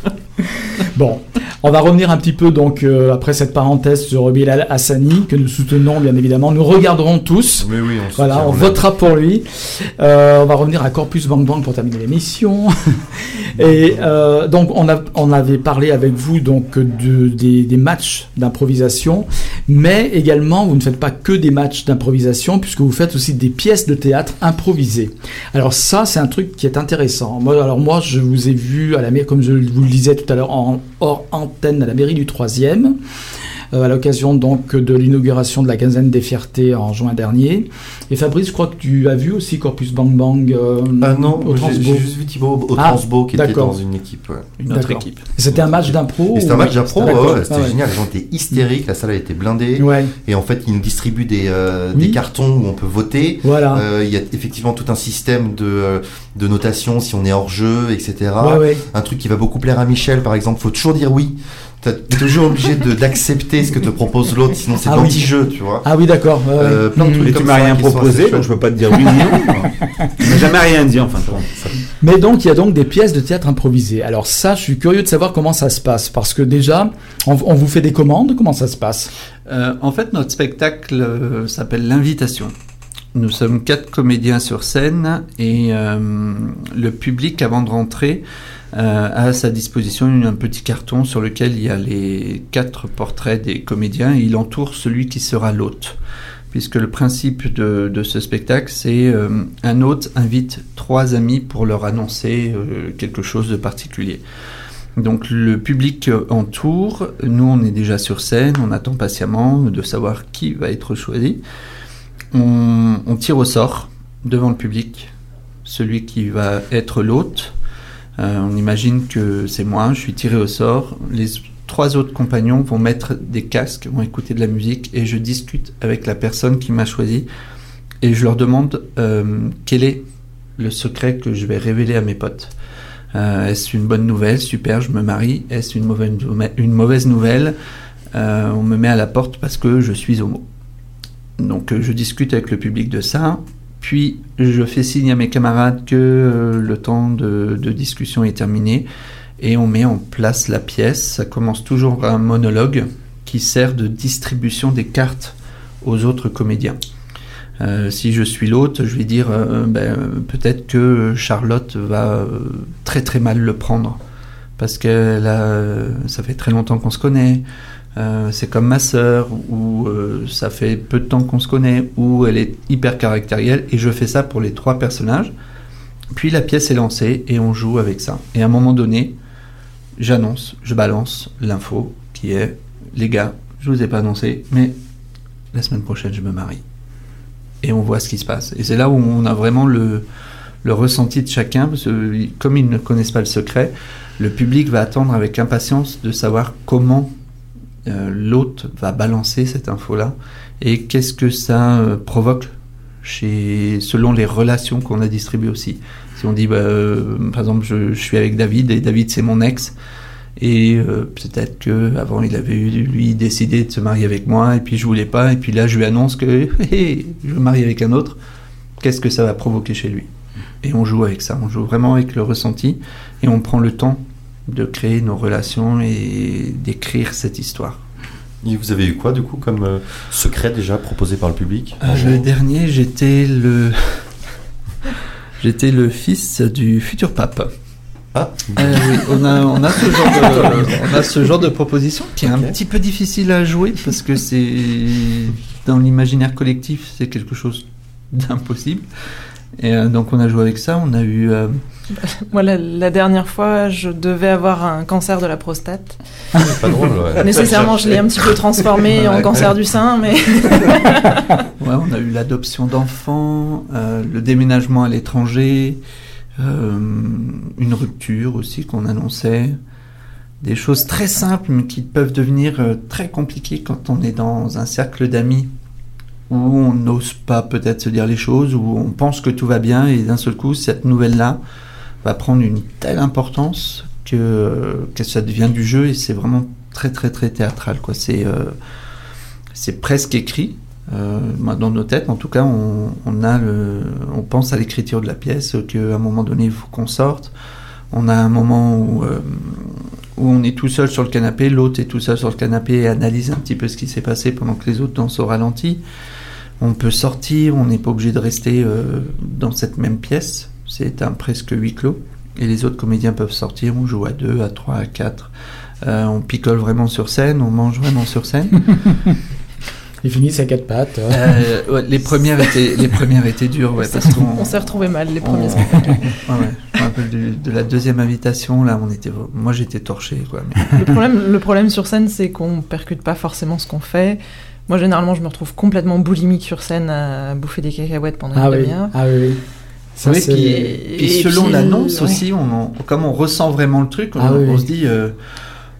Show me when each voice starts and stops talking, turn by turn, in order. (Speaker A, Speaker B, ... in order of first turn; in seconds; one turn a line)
Speaker A: 0.6-33.0
Speaker B: 7.6-8.8
Speaker B: 13.6-14.0
Speaker A: 33.7-42.0
Speaker B: 41.0-44.5
Speaker A: 42.8-43.8
Speaker C: 44.6-45.3
Speaker A: 44.7-47.8
Speaker B: 45.5-65.9
Speaker A: 49.8-50.1
Speaker A: 53.4-53.8
Speaker A: 58.4-58.8
Speaker A: 64.9-67.3
Speaker B: 66.6-69.6
Speaker D: 67.2-69.7
Speaker D: 70.2-71.5
Speaker B: 71.4-71.7
Speaker A: 72.0-79.1
Speaker C: 79.5-82.5
Speaker C: 83.1-96.0
Speaker C: 96.5-104.2
Speaker C: 105.0-111.4
Speaker C: 112.3-115.1
Speaker C: 115.7-117.5
Speaker C: 118.2-127.3
Speaker C: 128.0-130.0
Speaker C: 130.6-132.5
Speaker C: 133.1-137.6
Speaker C: 138.1-140.4
Speaker C: 141.4-148.9
Speaker C: 149.4-156.8
Speaker C: 157.6-164.0
Speaker C: 164.6-167.4
Speaker C: 168.0-175.3
Speaker C: 176.1-179.1
Speaker C: 180.0-184.7
Speaker C: 185.5-186.6
Speaker C: 187.6-190.0
Speaker C: 190.6-197.1
Speaker C: 197.9-202.5
Speaker C: 203.0-209.7
Speaker C: 210.4-218.2
Speaker C: 218.8-220.1
Speaker C: 220.6-227.8
Speaker B: 228.4-232.3
Speaker C: 231.8-234.1
Speaker C: 235.4-237.5
Speaker B: 238.1-239.4
Speaker C: 238.6-248.8
Speaker B: 240.0-240.8
Speaker B: 242.2-242.6
Speaker C: 249.6-251.6
Speaker E: 252.0-256.5
Speaker B: 256.4-257.6
Speaker E: 257.2-261.2
Speaker C: 257.5-257.9
Speaker C: 258.9-259.5
Speaker C: 261.6-265.8
Speaker C: 266.4-269.6
Speaker C: 270.4-275.5
Speaker C: 276.3-281.4
Speaker C: 282.0-288.6
Speaker C: 289.5-297.3
Speaker C: 297.9-305.8
Speaker C: 306.6-315.3
Speaker C: 315.8-318.8
Speaker A: 320.0-321.2
Speaker C: 321.1-330.8
Speaker E: 323.8-326.2
Speaker E: 330.7-338.9
Speaker A: 338.4-339.4
Speaker A: 340.0-340.6
Speaker C: 340.0-345.1
Speaker E: 340.6-342.2
Speaker A: 344.2-344.7